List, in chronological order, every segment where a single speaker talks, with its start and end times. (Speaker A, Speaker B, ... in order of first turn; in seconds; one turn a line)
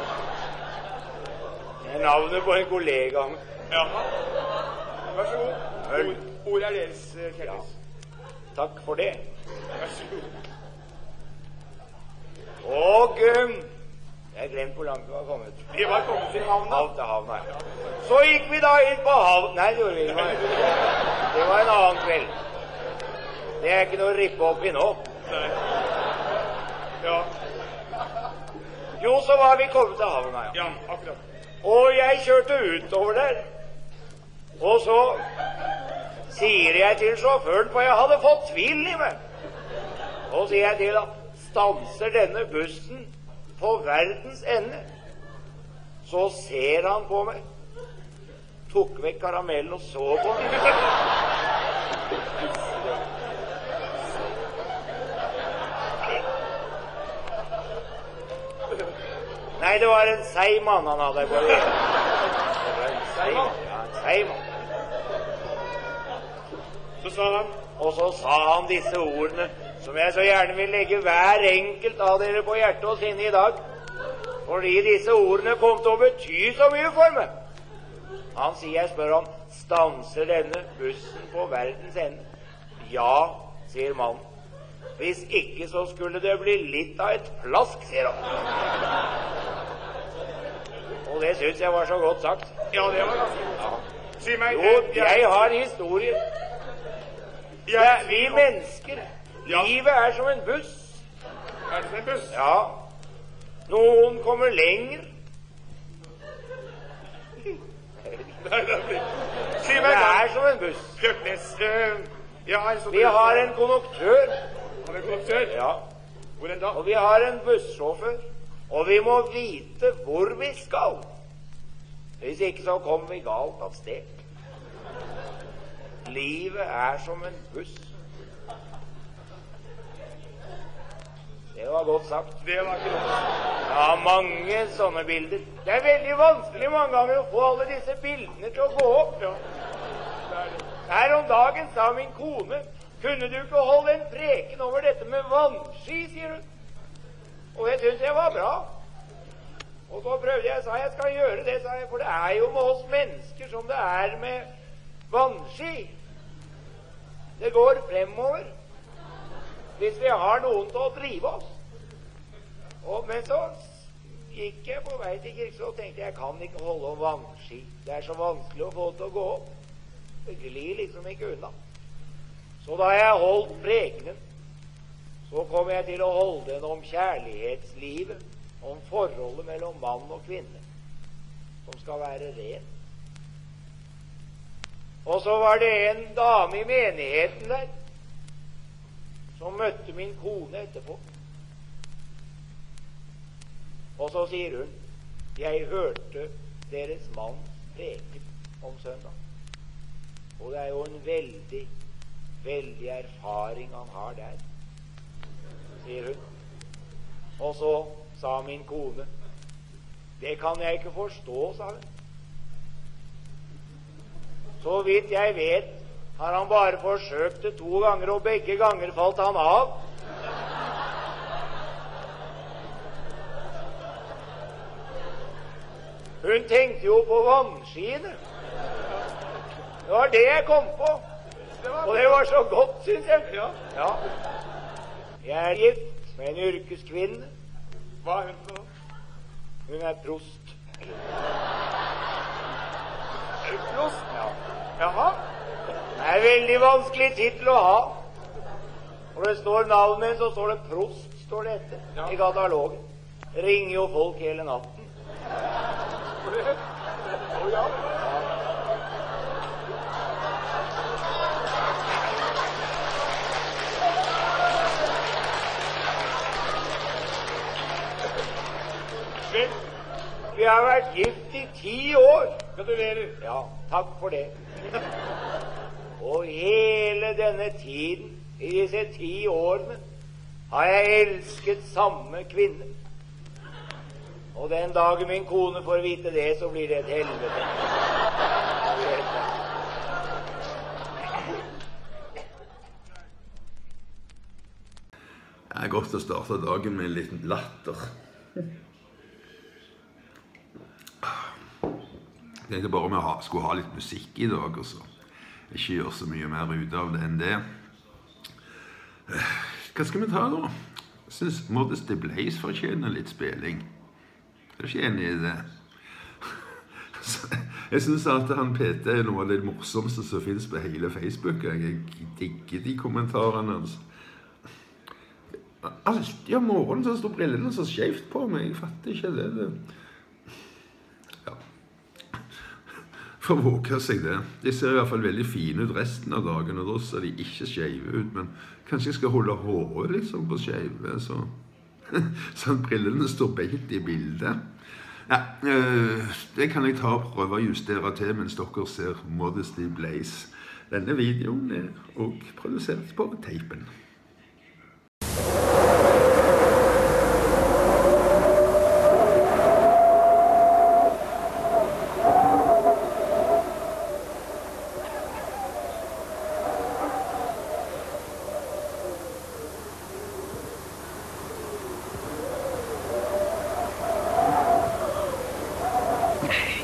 Speaker A: 1.8-3.4
Speaker B: 3.7-4.1
Speaker B: 5.1-7.7
Speaker A: 5.9-6.2
Speaker A: 8.5-9.2
Speaker B: 9.8-10.2
Speaker A: 12.6-13.7
Speaker A: 14.3-15.7
Speaker B: 15.7-16.9
Speaker A: 16.6-22.3
Speaker A: 23.6-25.1
Speaker B: 27.0-27.3
Speaker A: 29.0-30.8
Speaker B: 30.5-31.2
Speaker A: 31.6-33.5
Speaker A: 34.6-35.3
Speaker A: 36.3-39.2
Speaker A: 40.3-44.8
Speaker A: 46.0-47.4
Speaker A: 48.7-50.6
Speaker A: 59.6-61.9
Speaker A: 62.5-64.4
Speaker B: 63.2-63.5
Speaker B: 67.0-67.6
Speaker A: 67.8-73.6
Speaker A: 74.5-77.3
Speaker A: 78.3-82.2
Speaker A: 82.8-84.2
Speaker A: 85.0-88.3
Speaker A: 91.0-92.5
Speaker B: 92.7-93.5
Speaker B: 94.2-95.5
Speaker A: 94.5-96.2
Speaker B: 97.7-98.5
Speaker A: 97.7-101.0
Speaker B: 99.5-99.7
Speaker B: 101.7-102.3
Speaker A: 102.3-102.8
Speaker A: 103.7-105.1
Speaker B: 108.5-109.1
Speaker B: 109.6-110.3
Speaker A: 109.6-111.0
Speaker B: 111.0-113.5
Speaker A: 112.9-114.4
Speaker B: 114.8-115.6
Speaker A: 115.5-115.8
Speaker B: 116.4-116.8
Speaker A: 116.7-121.1
Speaker A: 122.2-124.2
Speaker A: 126.0-127.9
Speaker A: 131.5-132.4
Speaker B: 132.4-133.2
Speaker A: 133.7-139.2
Speaker B: 140.3-140.6
Speaker A: 140.8-146.4
Speaker A: 147.5-148.7
Speaker A: 149.9-154.5
Speaker A: 155.1-155.9
Speaker A: 157.4-158.5
Speaker A: 159.8-161.5
Speaker A: 162.8-169.5
Speaker A: 170.2-171.5
Speaker A: 172.6-174.2
Speaker A: 175.3-180.6
Speaker A: 181.7-182.7
Speaker A: 185.0-187.7
Speaker A: 189.4-191.0
Speaker A: 194.0-194.7
Speaker A: 195.3-199.1
Speaker A: 200.4-201.7
Speaker A: 202.4-204.4
Speaker A: 205.8-206.2
Speaker A: 207.4-209.1
Speaker A: 210.2-211.9
Speaker A: 214.6-219.8
Speaker A: 226.2-228.2
Speaker A: 229.8-231.0
Speaker B: 231.6-232.2
Speaker A: 231.8-234.0
Speaker B: 233.3-233.6
Speaker A: 235.2-237.3
Speaker B: 238.0-238.7
Speaker A: 239.7-240.6
Speaker B: 243.5-244.0
Speaker B: 244.8-245.1
Speaker A: 245.9-248.0
Speaker A: 249.1-252.8
Speaker A: 253.3-254.9
Speaker B: 257.3-257.9
Speaker A: 258.0-258.2
Speaker A: 270.3-272.5
Speaker B: 272.6-273.1
Speaker A: 273.2-274.3
Speaker A: 276.0-279.8
Speaker A: 280.5-282.7
Speaker A: 284.3-287.6
Speaker A: 288.7-289.3
Speaker C: 295.5-297.9
Speaker C: 301.0-301.3
Speaker C: 302.4-304.9
Speaker C: 305.5-307.4
Speaker C: 309.1-313.7
Speaker C: 314.6-315.5
Speaker C: 316.2-323.8
Speaker C: 325.6-329.6
Speaker C: 333.2-344.5
Speaker C: 345.1-353.7